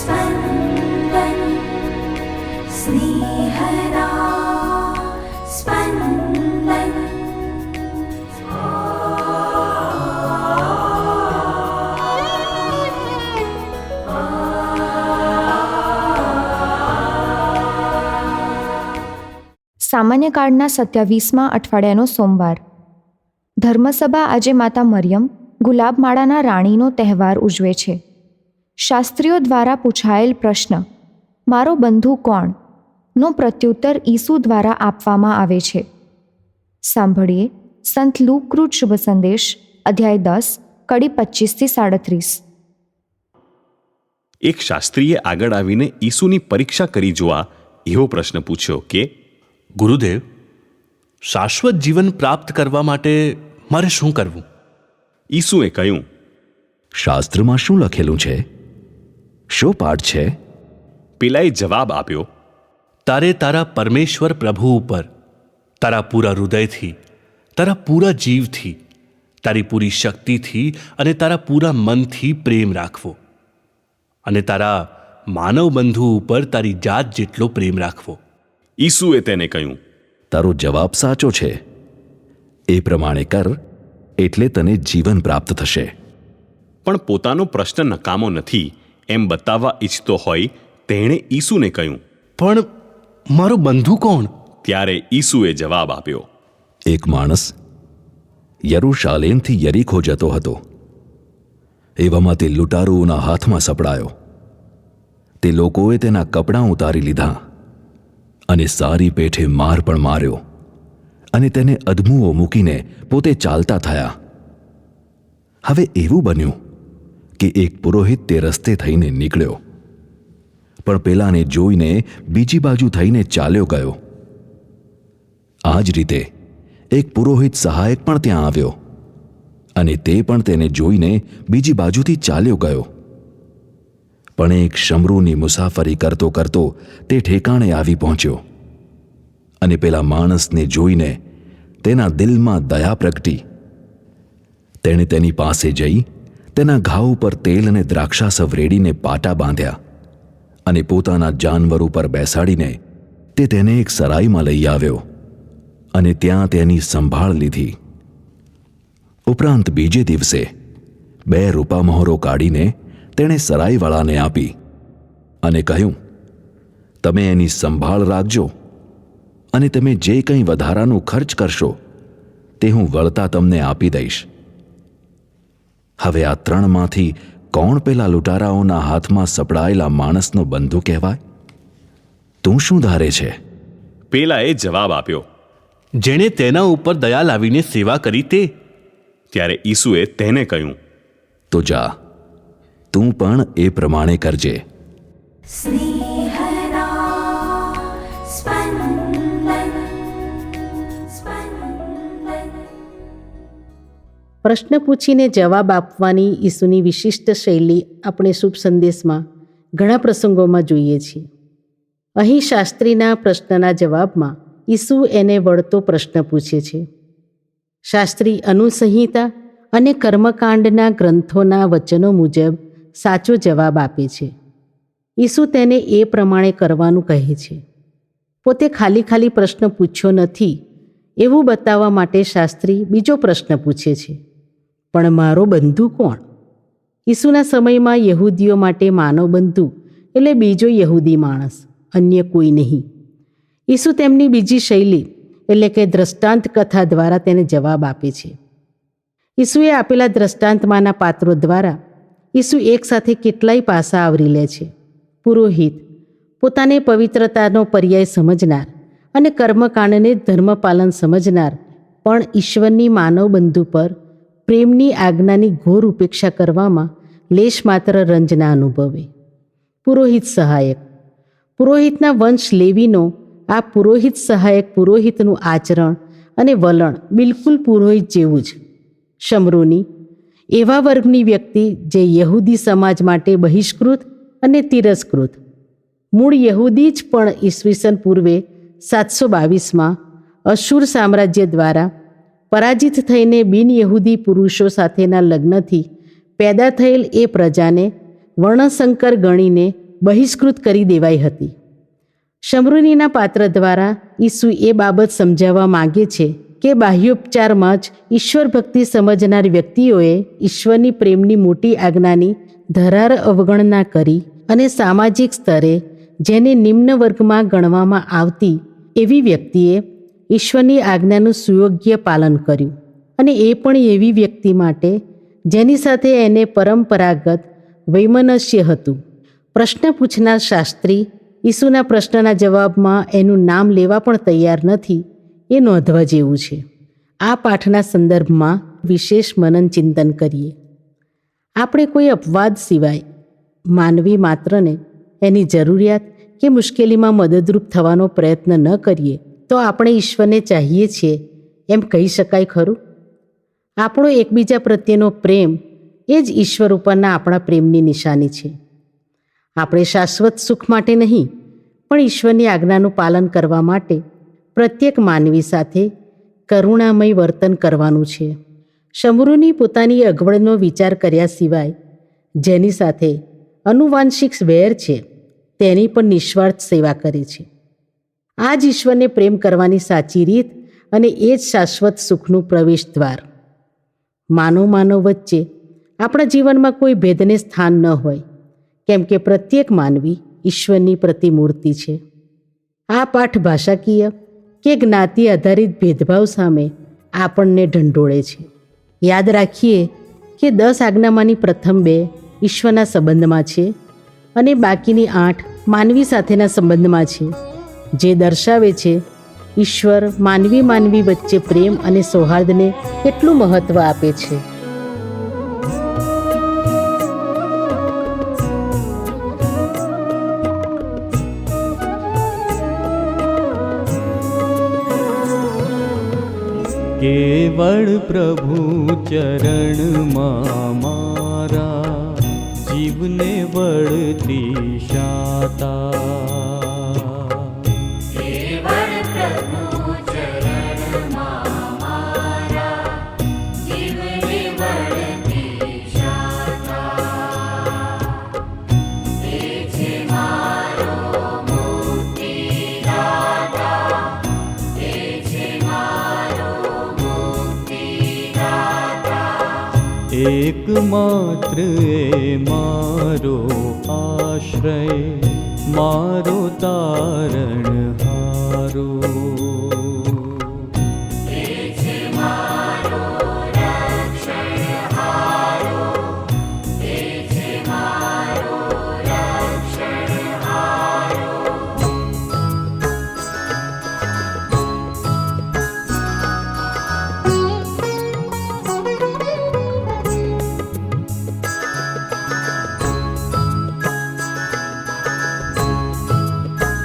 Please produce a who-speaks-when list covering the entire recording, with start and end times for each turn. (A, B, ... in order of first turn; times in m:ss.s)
0:00.4-0:01.7 A
0:02.8-0:07.4 A
0:19.9-0:22.6 A
0:23.6-0:28.0 A
0:28.8-0:30.8 A
0:31.5-0:32.6 A
0:33.2-0:35.8 A
0:36.9-0:42.4 A
0:44.4-0:49.1 B
0:49.8-0:50.2 C
0:51.3-0:54.4 C
0:55.3-0:56.0 B
0:57.0-0:58.4 D
0:59.5-1:00.3 D
1:01.2-1:02.3 B
1:03.1-1:05.1 C
1:05.8-1:07.0 C
1:07.6-1:08.8 C
1:09.4-1:13.2 C
1:14.2-1:18.2 C
1:18.8-1:19.8 B
1:20.3-1:21.6 D
1:22.7-1:23.5 D
1:24.2-1:25.9 D
1:26.8-1:32.0 B
1:32.4-1:32.7 C
1:33.3-1:34.3 C
1:34.6-1:36.2 B
1:36.9-1:37.5 D
1:38.7-1:40.6 D
1:42.0-1:44.1 D
1:45.4-1:47.4 D
1:48.5-1:50.4 D
1:51.3-1:54.1 D
1:55.7-1:56.6 D
1:57.4-1:59.6 D
2:00.8-2:04.0 D
2:05.7-2:06.2 D
2:06.9-2:08.8 D
2:09.8-2:12.9 D
2:14.4-2:18.4 D
2:19.6-2:21.2 D
2:21.8-2:23.4 D
2:24.8-2:29.8 D
2:30.7-2:32.8 D
2:33.4-2:35.0 D
2:36.0-2:37.7 D
2:39.3-2:40.4 D
2:41.3-2:44.5 D
2:45.4-2:46.0 D
2:47.0-2:48.5 D
2:49.5-2:51.8 D
2:52.6-2:54.2 D
2:56.0-3:01.2 D
3:02.4-3:03.4 D
3:04.1-3:05.2 B
3:06.0-3:08.5 C
3:09.3-3:10.8 B
3:11.5-3:11.9 D
3:12.9-3:14.6 D
3:15.9-3:19.5 A
3:21.3-3:22.2 A
3:24.4-3:29.2 E
3:29.8-3:31.2 E
3:32.2-3:36.8 E
3:37.9-3:44.3 E
3:45.2-3:47.6 E
3:48.4-3:50.5 E
3:51.2-3:54.2 E
3:54.9-3:56.2 E
3:57.1-4:02.8 E
4:03.7-4:08.3 E
4:09.4-4:11.7 E
4:12.4-4:14.7 E
4:15.2-4:15.8 E
4:16.4-4:23.9 E
4:24.5-4:29.1 E
4:29.8-4:30.8 E
4:31.6-4:38.6 E
4:39.2-4:39.8 E
4:40.5-4:45.4 E
4:46.1-4:49.9 E
4:50.5-4:51.9 E
4:52.5-4:55.8 E
4:56.4-4:57.9 E
4:58.4-5:01.5 E
5:02.4-5:19.8 E
5:20.3-5:24.9 E
5:25.5-5:29.0 E
5:29.5-5:36.6 E
5:37.2-5:40.5 E
5:41.6-5:43.0 E
5:43.7-5:51.2 E
5:51.7-5:52.8 E
5:53.8-5:55.5 E
5:56.1-5:58.5 E
5:59.6-6:01.3 E
6:01.9-6:04.0 E
6:04.5-6:05.9 E
6:06.5-6:08.3 E
6:09.0-6:11.7 E
6:12.4-6:15.0 E
6:15.6-6:17.5 E
6:18.4-6:23.2 E
6:24.3-6:25.4 E
6:26.0-6:28.2 E
6:28.9-6:32.0 E
6:32.9-6:34.1 E
6:34.6-6:38.5 E
6:39.0-6:39.8 E
6:40.4-6:43.7 E
6:44.4-6:47.3 E
6:48.0-6:49.0 E
6:49.6-6:54.4 E
7:07.0-7:17.7 F
7:40.1-7:50.7 F